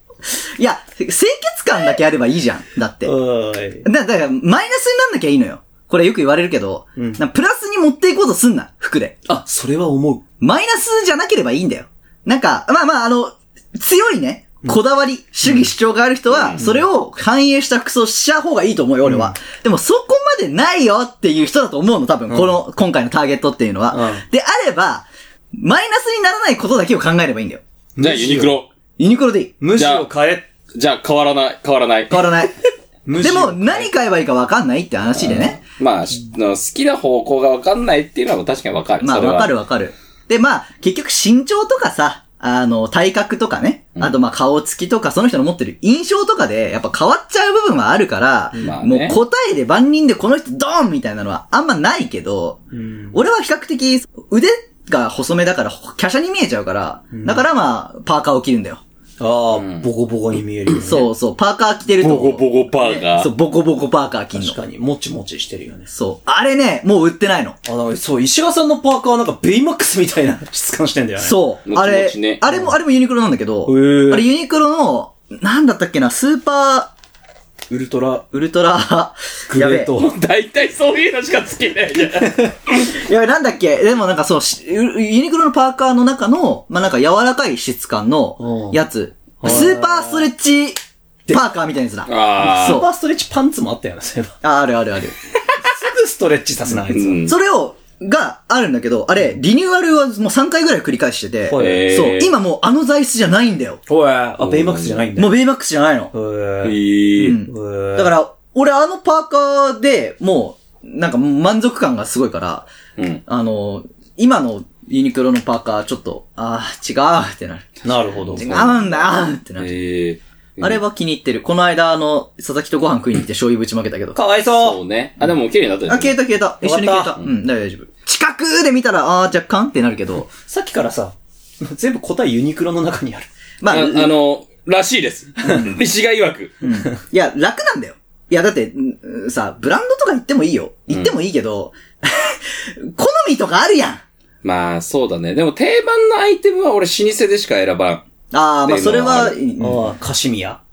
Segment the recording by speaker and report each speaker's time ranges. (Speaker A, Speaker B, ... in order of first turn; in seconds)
Speaker A: 0.3-3.1, 3.8-9.2, 10.4-27.6, 29.0-29.6, 32.1-32.5, 33.2-35.6, 39.0-52.6, 53.1-58.8, 60.8-64.6, 65.9-67.6, 71.2-76.9, 78.3-79.9, 82.8-90.8, 91.3-92.9, 94.4-95.2, 97.3-103.8, 105.2-106.1, 107.2-112.7, 113.3-117.8, 118.4-119.7, 120.6-124.2, 125.9-130.3, 133.6-134.1, 136.6-144.0, 148.3-149.9
Speaker B: 3.0-3.9, 7.0-7.2, 9.3-10.2, 19.0-19.3, 23.9-24.2, 28.0-28.6, 29.6-30.5, 33.1-33.9, 52.7-53.2, 57.1-57.5, 59.2-61.1, 64.3-65.9, 67.7-71.4, 73.7-74.3, 77.7-78.2, 79.5-80.1, 82.2-82.5, 88.4-88.8, 89.4-90.3, 92.4-94.3, 95.6-97.2, 101.5-101.9, 103.9-105.4, 106.1-106.8, 107.4-108.1, 117.8-118.7, 124.2-124.8, 126.6-127.2, 130.4-133.3, 149.6-150.6
Speaker C: 16.3-16.6, 28.0-28.7, 29.8-30.1, 30.7-32.4, 35.2-39.5, 48.6-49.2, 59.5-59.9, 62.0-63.3, 71.7-72.4, 80.0-82.5, 92.1-92.8, 96.9-97.3, 101.5-102.3, 104.4-105.1, 106.6-107.4, 113.0-113.2, 118.2-120.8, 124.5-126.2, 133.7-136.6, 144.4-148.0, 148.7-149.4